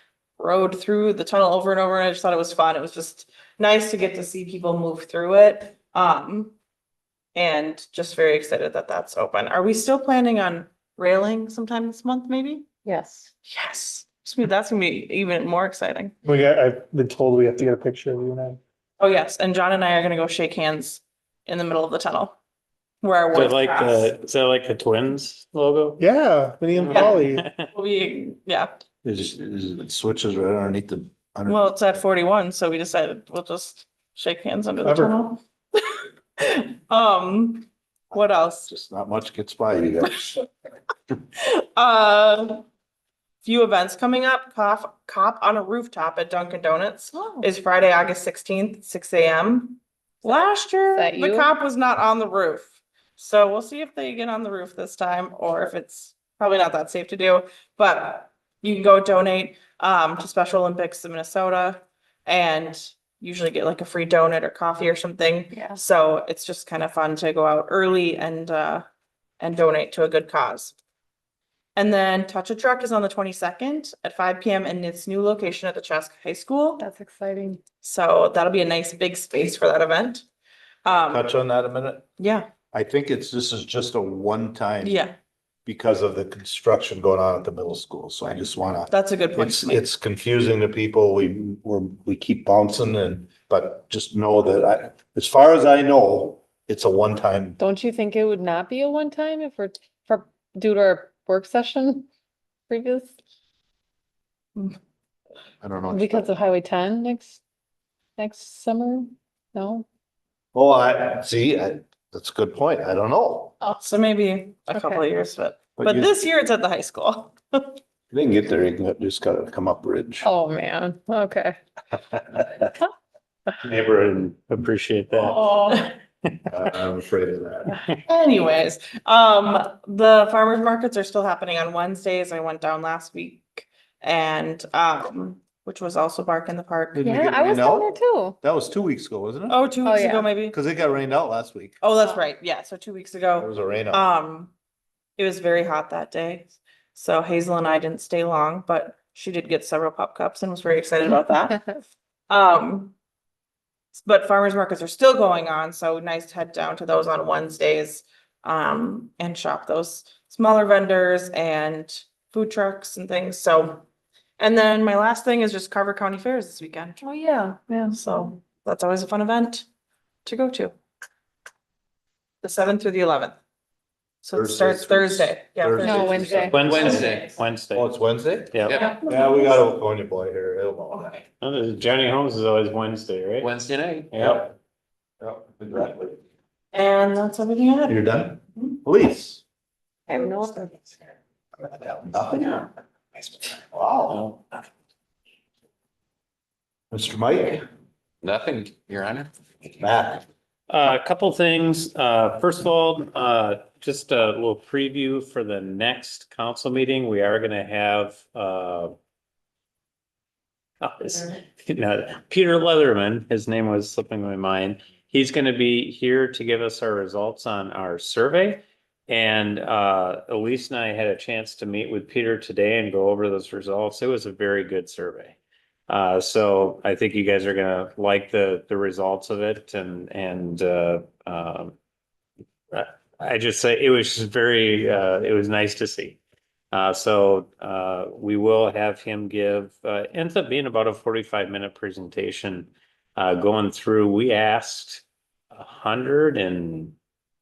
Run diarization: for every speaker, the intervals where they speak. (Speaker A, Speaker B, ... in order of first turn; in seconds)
Speaker A: 0.4-6.5, 7.3-12.7, 13.5-16.1, 19.0-22.4, 23.0-24.1, 26.9-28.7, 31.5-38.7, 41.3-42.6, 43.4-68.8, 69.4-70.7, 71.8-76.8, 77.8-80.2, 80.8-81.3, 82.2-82.5, 84.8-85.1, 88.9-89.8, 113.7-117.8, 125.3-125.9, 128.1-137.1, 139.5-140.6, 141.8-144.5, 145.2-151.7, 152.3-152.9, 153.9-163.8, 164.4-167.0, 167.9-169.7, 170.2-170.8, 172.4-173.4, 174.2-177.2, 178.7-179.6, 186.7-188.1
Speaker B: 12.8-13.3, 50.9-51.5, 65.5-65.8, 76.8-77.6, 97.6-102.1, 102.7-103.1, 105.9-107.4, 108.2-109.8, 120.2-121.6, 137.0-138.4, 139.8-140.3, 167.0-168.0, 175.8-176.7, 190.2-190.7
Speaker C: 16.2-18.6, 26.0-27.4, 34.8-35.1
Speaker D: 23.3-26.0, 26.7-27.6, 123.6-125.5, 176.4-177.9, 178.5-178.8, 181.4-183.5, 184.1-184.4, 200.7-208.9, 210.8-225.4, 225.9-231.8, 232.7-236.2, 236.7-246.9
Speaker E: 29.0-31.6, 38.7-40.2, 81.1-82.0, 82.7-85.0, 85.7-97.6, 105.6-106.3, 110.5-113.5, 115.8-116.1, 118.1-120.3, 122.1-122.6, 126.5-127.8, 136.9-139.7, 140.5-141.8, 143.4-144.0, 174.3-177.1, 177.7-181.2, 184.2-184.5, 185.2-186.2, 187.9-189.4, 191.6-192.7, 193.4-194.3, 196.9-197.7, 199.8-200.2
Speaker F: 176.7-177.2, 183.4-184.1, 198.2-199.7